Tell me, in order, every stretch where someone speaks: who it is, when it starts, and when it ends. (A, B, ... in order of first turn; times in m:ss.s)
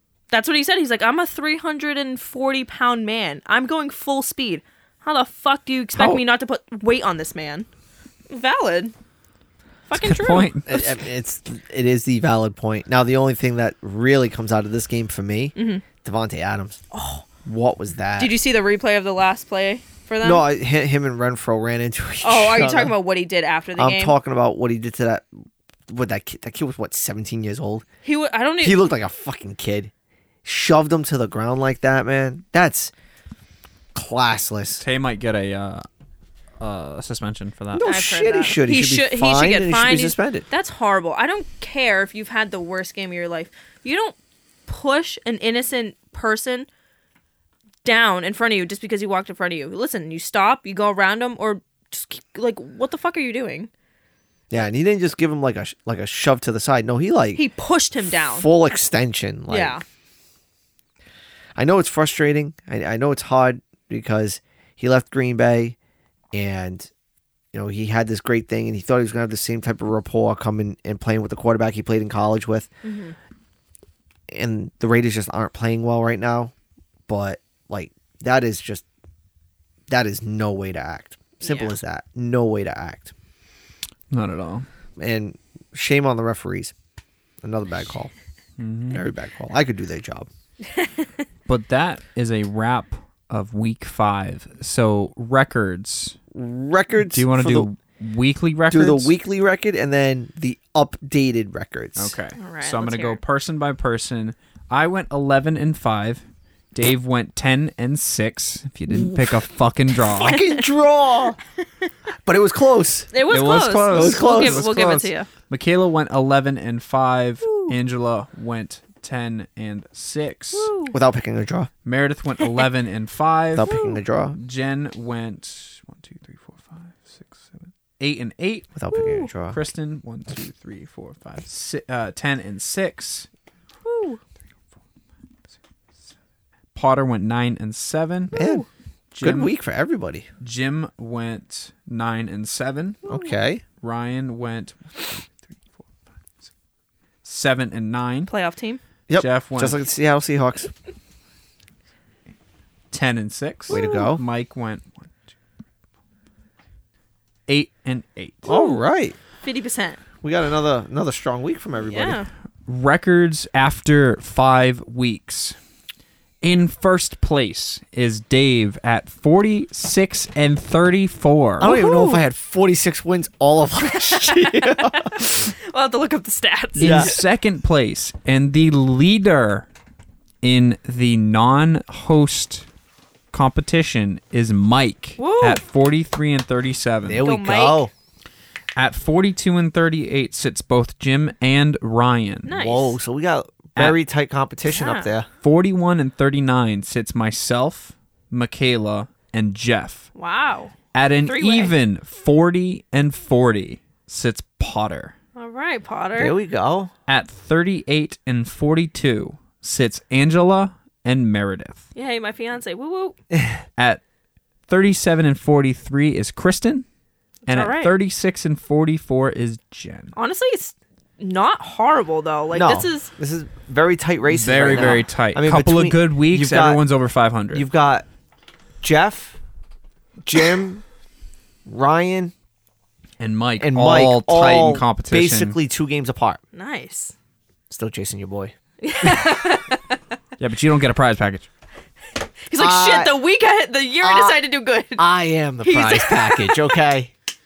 0:00.3-0:07.7 A
0:05.9-0:06.2 B
0:08.3-0:08.9 A
0:09.9-0:10.9 A
0:09.9-0:10.7 B
0:10.7-0:16.8 C
0:15.6-0:15.8 A
0:16.9-0:17.2 A
0:17.4-0:18.3 C
0:18.2-0:20.4 A
0:20.2-0:22.9 C
0:22.2-0:24.1 A
0:23.8-0:27.8 C
0:28.0-0:28.8 A
0:28.6-0:29.9 C
0:30.4-0:32.9 C
0:33.9-0:34.8 C
0:34.8-0:35.8 B
0:36.6-0:37.9 B
0:37.7-0:40.4 C
0:37.8-0:44.2 A
0:44.7-0:46.7 A
0:47.8-0:53.7 A
0:54.5-0:57.4 C
0:57.4-0:58.5 A
0:58.3-0:59.8 C
0:59.5-0:59.8 A
1:01.6-1:05.8 C
1:06.3-1:06.9 C
1:07.5-1:12.7 C
1:12.8-1:13.2 A
1:14.3-1:16.5 C
1:17.1-1:18.8 C
1:19.9-1:23.1 C
1:21.4-1:21.7 A
1:24.1-1:24.7 B
1:25.0-1:26.7 C
1:27.4-1:28.1 C
1:28.6-1:29.0 B
1:28.9-1:30.3 C
1:31.5-1:36.2 B
1:36.3-1:37.7 C
1:37.1-1:39.1 B
1:38.7-1:42.1 C
1:42.0-1:50.4 B
1:42.4-1:43.2 A
1:48.9-1:49.2 C
1:50.1-1:51.4 C
1:50.2-1:50.6 A
1:52.2-1:53.1 C
1:53.1-1:55.3 A
1:53.3-2:00.7 B
1:53.9-1:54.6 C
1:57.4-1:57.7 A
2:00.5-2:00.9 A
2:00.9-2:01.7 C
2:01.8-2:03.7 B
2:03.5-2:04.4 C
2:03.6-2:04.0 A
2:04.3-2:08.7 B
2:08.7-2:09.6 C
2:08.9-2:09.3 A
2:09.5-2:13.3 B
2:13.8-2:14.2 A
2:16.7-2:18.3 B
2:18.3-2:18.6 C
2:18.3-2:18.6 A
2:19.1-2:19.5 B
2:19.2-2:20.3 C
2:20.4-2:23.0 B
2:23.0-2:23.6 C
2:23.8-2:25.6 B
2:27.2-2:28.3 B
2:28.3-2:28.8 A
2:29.1-2:30.7 C
2:29.2-2:29.8 B
2:32.9-2:35.1 B
2:33.7-2:34.2 C
2:33.7-2:34.0 A
2:37.5-2:38.5 B
2:38.4-2:39.2 C
2:38.5-2:38.8 A
2:39.4-2:40.0 A
2:40.2-2:42.2 C
2:41.8-2:42.3 A
2:42.6-2:45.6 B
2:46.4-2:51.7 B
2:51.6-2:55.4 C
2:51.6-2:52.2 A
2:54.0-2:57.2 A
2:56.8-2:57.1 C
2:56.8-2:59.7 B
3:00.4-3:02.7 B
3:03.3-3:07.2 B
3:05.2-3:05.6 A
3:07.0-3:07.9 C
3:07.2-3:07.9 A
3:08.8-3:12.5 B
3:12.4-3:13.0 A
3:12.5-3:15.3 C
3:14.7-3:15.1 A
3:15.4-3:20.1 B
3:20.1-3:21.7 A
3:20.9-3:25.1 B
3:25.3-3:26.3 A
3:26.2-3:26.9 C
3:27.1-3:31.8 B
3:31.9-3:33.2 A
3:34.7-3:36.8 B
3:37.4-3:37.9 A
3:37.5-3:40.1 B
3:40.1-3:43.1 A
3:42.5-3:46.8 C
3:44.3-3:47.6 B
3:47.5-3:48.0 C
3:48.8-3:49.4 C
3:50.2-3:50.8 C
3:51.7-3:52.3 C
3:53.2-3:55.6 B
3:53.6-3:56.4 C
3:56.5-3:57.1 A
3:57.7-3:58.5 C
3:58.8-4:00.0 A
4:00.4-4:01.5 B
4:02.5-4:05.1 A
4:02.6-4:03.2 C
4:04.0-4:04.4 C
4:05.0-4:07.1 C
4:05.6-4:06.8 A